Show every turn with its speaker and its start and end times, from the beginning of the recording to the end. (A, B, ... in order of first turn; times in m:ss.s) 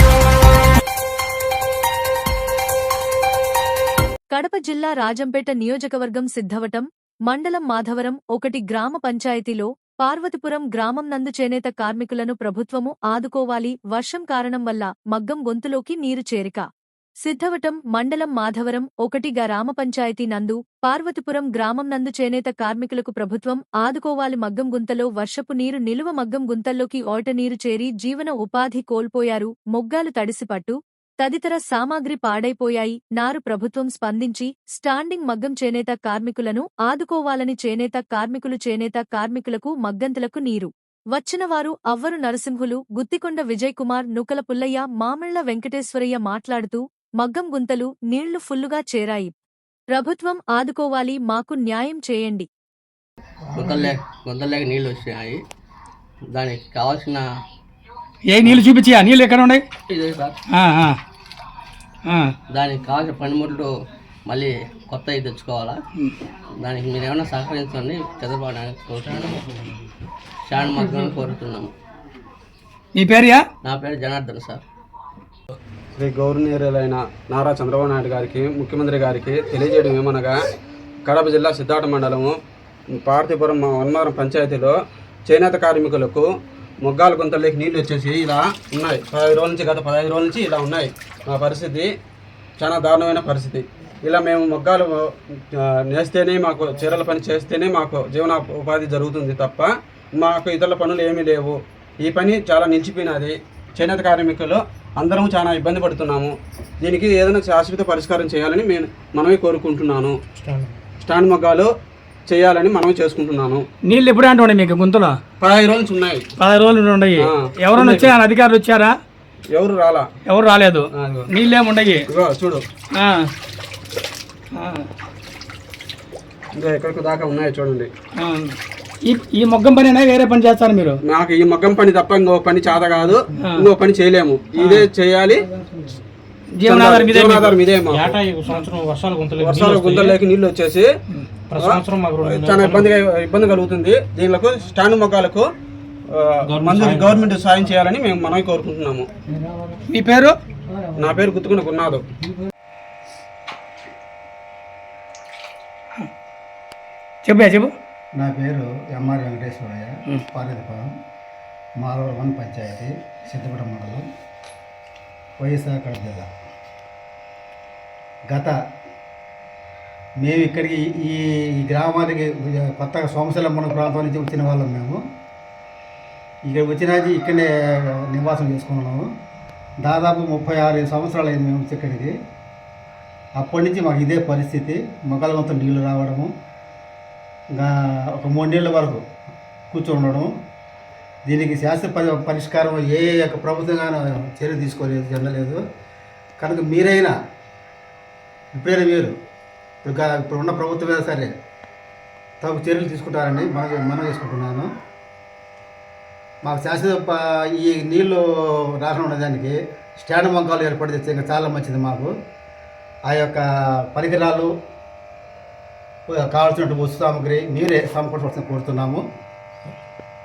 0:04.3-0:16.6 A
0:17.2-0:49.3 A
0:49.9-0:52.5 A
0:53.5-0:55.4 B
0:56.3-0:57.3 B
0:58.3-0:59.7 C
0:58.4-0:58.7 B
0:59.9-1:00.4 B
1:00.5-1:01.0 C
1:02.1-1:02.3 C
1:02.5-1:03.7 B
1:04.2-1:05.8 B
1:06.6-1:09.7 B
1:10.4-1:11.7 B
1:13.0-1:13.5 C
1:13.6-1:14.6 B
1:16.0-1:20.4 D
1:21.1-1:22.4 D
1:22.9-1:24.8 D
1:25.3-1:26.3 D
1:26.8-1:31.9 D
1:32.6-1:50.2 D
1:50.4-1:50.8 E
1:51.0-1:51.7 D
1:52.3-1:53.6 D
1:53.8-1:55.2 C
1:55.4-1:56.3 D
1:56.4-1:59.0 C
1:57.2-1:58.2 D
1:59.5-2:00.1 D
2:00.3-2:02.0 C
2:01.0-2:01.3 D
2:02.1-2:02.6 D
2:02.9-2:03.3 C
2:04.5-2:04.9 C
2:06.6-2:07.9 D
2:08.2-2:11.0 C
2:11.1-2:15.5 D
2:13.4-2:13.6 C
2:14.6-2:14.9 C
2:16.6-2:17.5 C
2:16.6-2:18.2 D
2:17.9-2:20.2 E
2:19.4-2:20.9 D
2:21.5-2:22.9 E
2:21.6-2:25.5 D
2:26.1-2:29.1 D
2:26.5-2:27.2 E
2:29.9-2:30.4 C
2:31.0-2:32.0 D
2:37.2-2:37.7 C
2:38.2-2:40.9 F
2:41.8-2:44.1 F
2:45.4-2:46.3 F
2:48.3-2:48.5 F
2:50.2-2:55.0 F
2:56.5-2:59.1 F
2:59.8-3:02.1 F
3:03.4-3:06.3 F
3:07.5-3:09.0 F
3:09.7-3:10.3 F
3:11.2-3:15.6 F
3:16.4-3:17.1 F
3:18.6-3:19.1 F
3:19.8-3:21.3 F
3:22.4-3:24.7 F
3:26.4-3:32.1 F
3:33.1-3:34.5 F
3:36.1-3:39.0 F